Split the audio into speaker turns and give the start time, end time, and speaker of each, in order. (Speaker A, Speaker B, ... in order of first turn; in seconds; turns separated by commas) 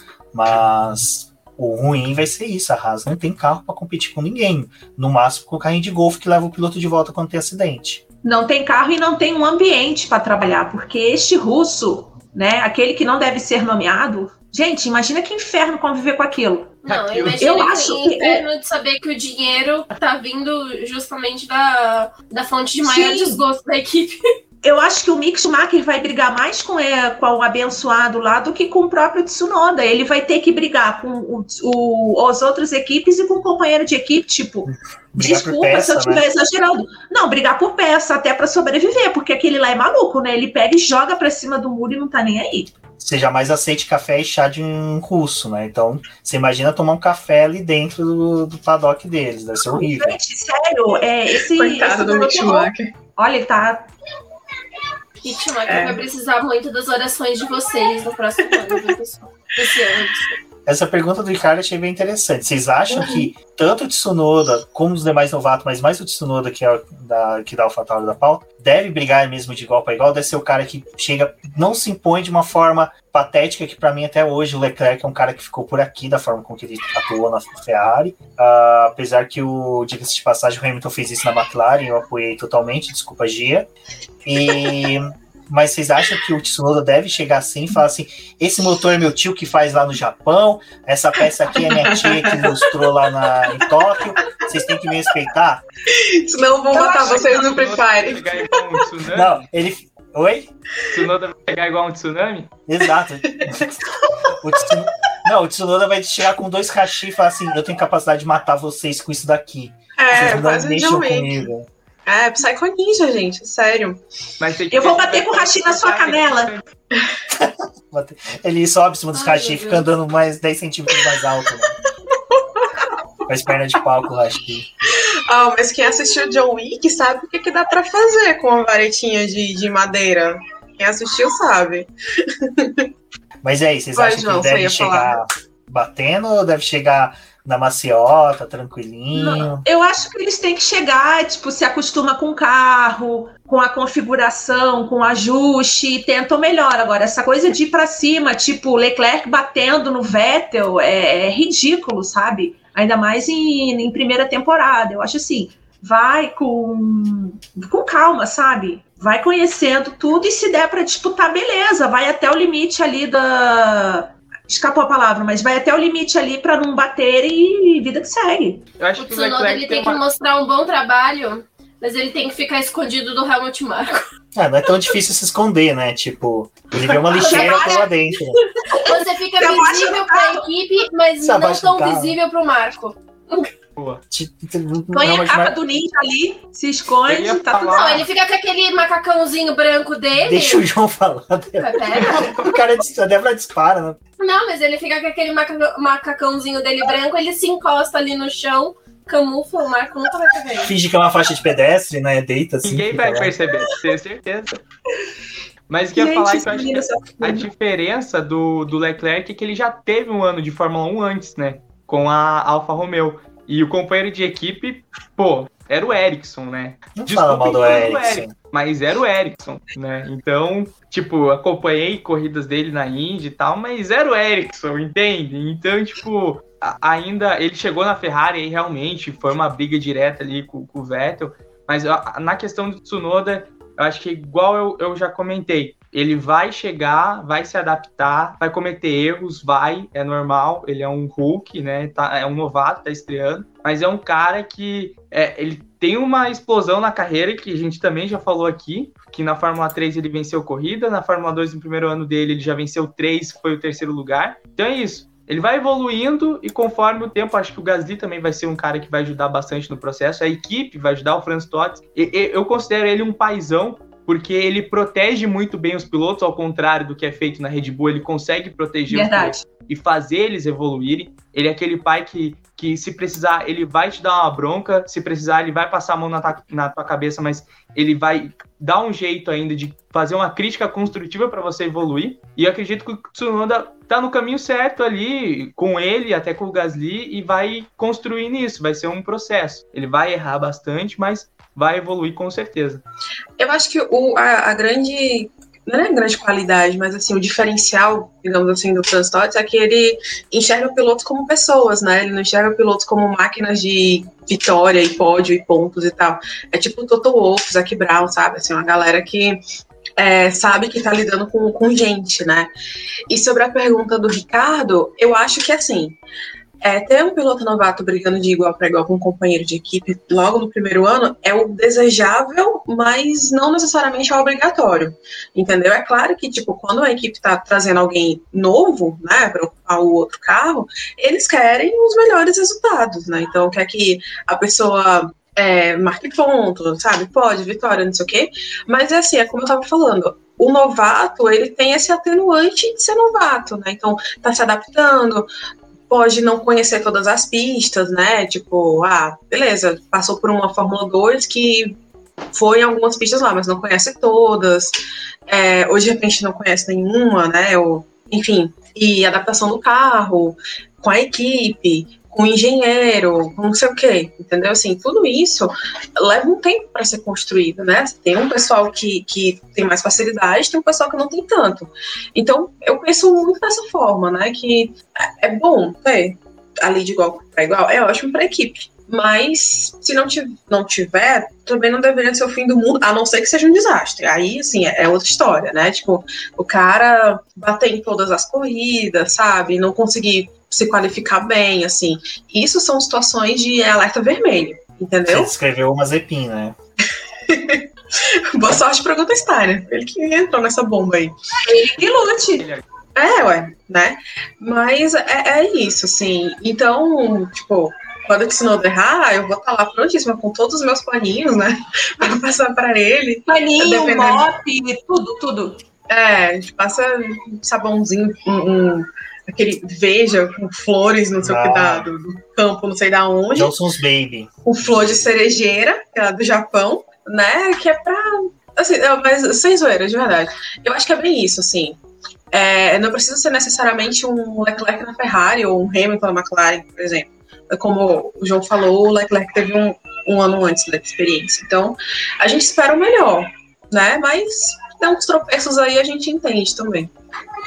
Speaker A: 0.3-8.0, Speaker B: 8.2-16.8, Speaker C: 16.8-24.2, Speaker D: 16.9-17.4, Speaker B: 17.4-18.4, Speaker B: 22.8-23.4, Speaker B: 24.6-42.7, Speaker A: 34.7-36.2, Speaker A: 43.0-50.2, Speaker B: 49.7-53.9, Speaker E: 51.5-52.8, Speaker C: 55.2-60.3, Speaker E: 55.7-56.0, Speaker A: 60.6-83.7, Speaker A: 84.2-95.6, Speaker E: 91.5-92.8, Speaker E: 95.9-98.6, Speaker D: 96.7-99.4, Speaker A: 99.1-100.5, Speaker D: 100.9-102.5, Speaker A: 102.7-103.8, Speaker E: 103.4-104.3, Speaker A: 104.4-111.7, Speaker E: 110.0-111.5, Speaker E: 112.1-114.0, Speaker D: 114.4-116.6, Speaker B: 114.7-116.5, Speaker A: 117.3-121.7, Speaker C: 119.1-119.9, Speaker E: 122.3-122.9, Speaker A: 123.3-124.7, Speaker E: 125.3-132.8, Speaker A: 133.4-139.6, Speaker E: 133.9-135.1, Speaker B: 139.1-168.6, Speaker D: 168.8-170.0, Speaker C: 169.0-174.1, Speaker A: 174.3-178.4, Speaker B: 176.8-177.8, Speaker C: 177.2-177.9, Speaker B: 178.7-180.4, Speaker C: 178.8-183.5, Speaker A: 181.2-182.2, Speaker A: 184.1-185.6, Speaker B: 184.9-187.9, Speaker D: 187.1-188.1, Speaker C: 187.6-190.6, Speaker A: 190.2-194.0, Speaker C: 191.6-192.2, Speaker C: 194.2-200.7, Speaker A: 200.6-203.3, Speaker D: 202.6-204.6, Speaker D: 205.7-292.8, Speaker B: 205.9-207.5, Speaker A: 216.9-218.3, Speaker B: 268.9-269.5, Speaker E: 293.4-309.4, Speaker E: 310.0-312.5, Speaker E: 313.1-316.0, Speaker E: 316.6-345.3, Speaker E: 345.9-351.8, Speaker E: 352.3-354.7, Speaker E: 355.3-395.3, Speaker A: 395.1-396.6, Speaker E: 397.3-397.6, Speaker E: 398.3-401.1, Speaker B: 401.4-402.5, Speaker D: 402.4-402.6, Speaker E: 402.9-414.3, Speaker B: 413.3-415.6, Speaker E: 415.9-423.5, Speaker A: 421.2-421.9, Speaker A: 423.3-425.1, Speaker E: 424.4-431.8, Speaker E: 432.3-446.9